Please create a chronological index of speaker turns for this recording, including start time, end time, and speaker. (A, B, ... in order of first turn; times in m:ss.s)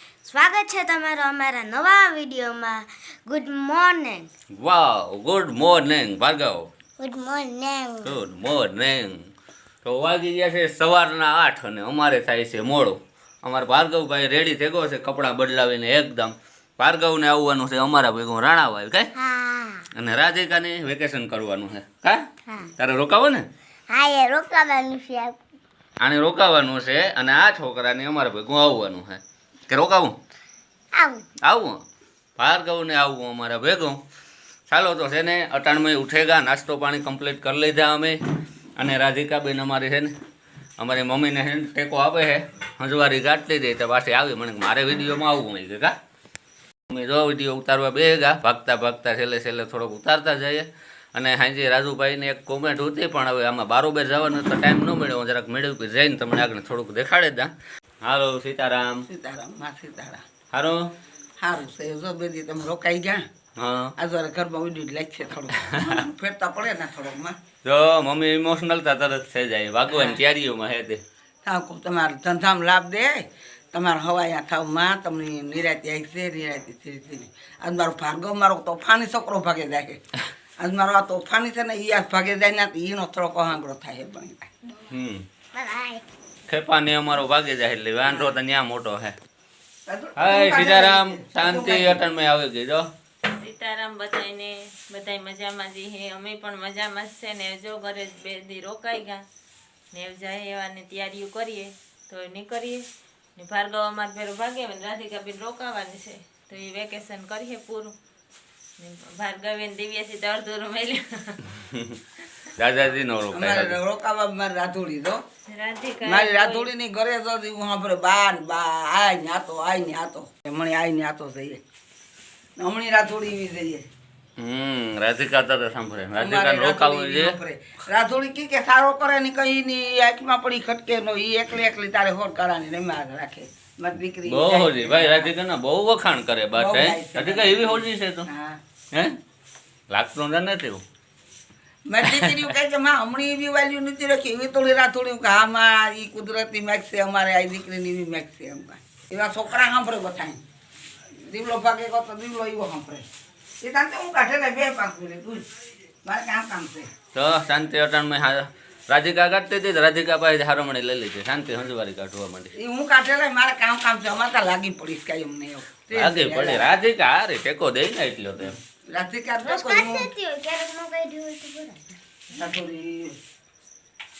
0:00.2-0:04.3 A
0:04.6-0:06.7 B
0:07.0-0:08.2 A
0:08.0-0:09.2 B
0:09.8-0:19.1 B
0:19.2-0:19.8 A
0:19.9-0:22.2 B
0:22.8-0:23.4 B
0:23.9-0:25.4 A
0:26.0-0:30.2 B
0:30.9-0:31.2 A
0:31.4-0:31.8 B
0:32.4-0:34.0 B
0:34.7-0:38.2 B
0:38.8-0:40.1 B
0:40.8-0:45.9 B
0:46.9-0:59.0 B
0:59.1-1:00.2 C
1:00.5-1:00.9 B
1:01.4-1:03.2 C
1:03.6-1:03.9 B
1:04.0-1:07.4 C
1:05.6-1:06.0 B
1:07.6-1:11.0 B
1:09.9-1:10.2 C
1:11.4-1:20.0 C
1:20.6-1:24.5 C
1:24.9-1:25.2 B
1:25.5-1:26.0 A
1:26.5-1:29.1 B
1:28.1-1:28.3 C
1:29.9-1:32.0 C
1:30.2-1:32.9 B
1:33.2-1:39.2 D
1:39.9-1:48.0 D
1:48.8-1:51.4 D
1:52.6-1:53.8 B
1:53.3-1:55.2 C
1:55.4-1:56.7 D
1:56.0-2:01.6 C
2:02.6-2:03.8 C
2:04.4-2:07.4 B
2:06.2-2:15.3 C
2:14.3-2:18.3 B
2:16.5-2:18.6 C
2:19.9-2:20.8 B
2:21.9-2:30.4 C
2:22.0-2:22.5 B
2:31.1-2:33.0 C
2:33.6-2:35.4 C
2:36.0-2:36.9 C
2:37.1-2:42.5 B
2:42.6-2:46.7 C
2:45.9-2:48.6 B
2:48.9-2:50.1 C
2:49.4-2:52.0 A
2:52.3-2:53.2 C